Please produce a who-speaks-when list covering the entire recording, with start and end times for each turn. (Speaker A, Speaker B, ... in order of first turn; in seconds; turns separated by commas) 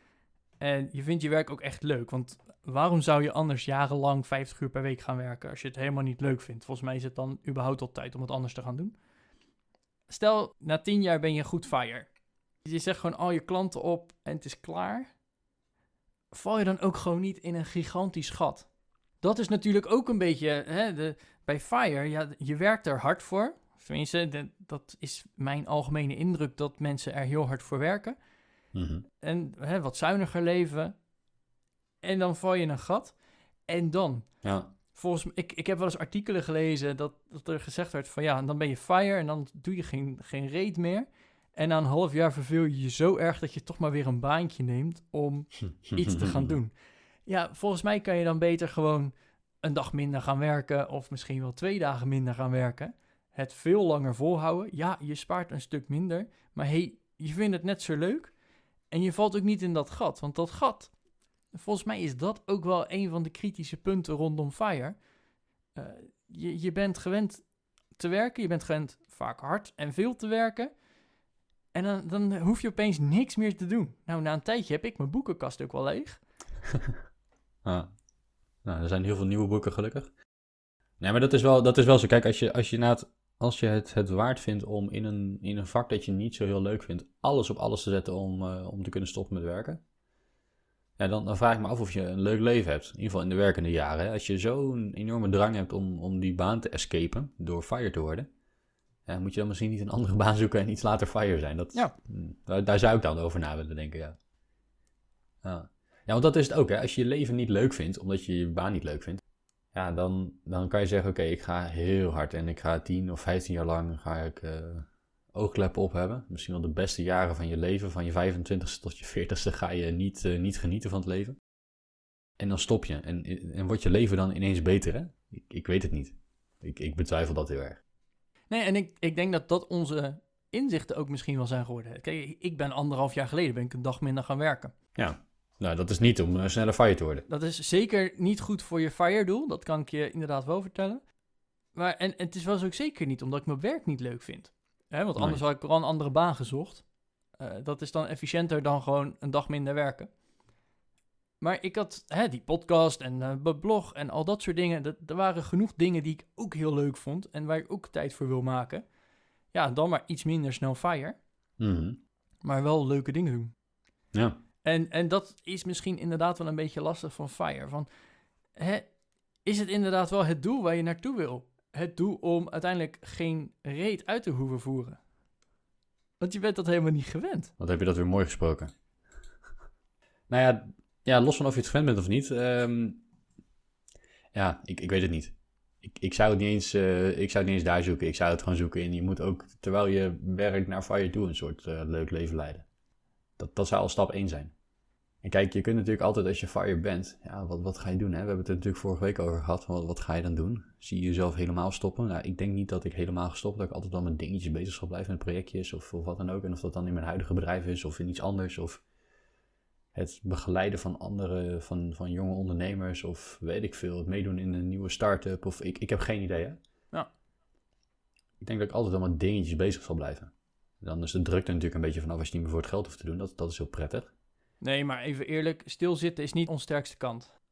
Speaker A: 0.6-9.0, Speaker A: 10.1-12.1, Speaker A: 12.7-15.1, Speaker A: 16.3-18.7, Speaker A: 19.2-28.2, Speaker B: 28.7-29.1, Speaker A: 29.2-30.9, Speaker A: 32.0-33.1, Speaker A: 33.7-34.3, Speaker B: 34.4-34.7, Speaker A: 34.9-46.7, Speaker B: 45.8-46.6, Speaker A: 47.3-49.1, Speaker A: 49.6-58.3, Speaker A: 58.9-60.9, Speaker A: 61.5-65.0, Speaker A: 65.8-70.7, Speaker A: 71.7-76.2, Speaker B: 77.7-77.9, Speaker B: 78.7-80.1, Speaker B: 81.0-89.8, Speaker B: 91.0-98.3, Speaker B: 99.1-104.2, Speaker B: 105.4-109.2, Speaker B: 109.7-121.4, Speaker B: 122.4-127.8, Speaker A: 128.5-134.7, Speaker B: 135.0-137.3, Speaker A: 137.3-141.0, Speaker A: 141.8-146.8, Speaker A: 147.4-150.1, Speaker A: 151.4-158.8, Speaker A: 159.5-161.2, Speaker B: 161.6-162.0, Speaker A: 162.4-163.5, Speaker B: 164.1-164.4, Speaker A: 164.6-167.9, Speaker A: 168.6-168.9, Speaker A: 169.4-175.0, Speaker A: 176.2-177.5, Speaker B: 177.6-178.7, Speaker B: 180.3-183.0, Speaker B: 184.3-192.7, Speaker B: 193.4-194.5, Speaker B: 195.2-208.8, Speaker B: 209.9-216.6, Speaker B: 218.4-224.1, Speaker A: 224.6-227.3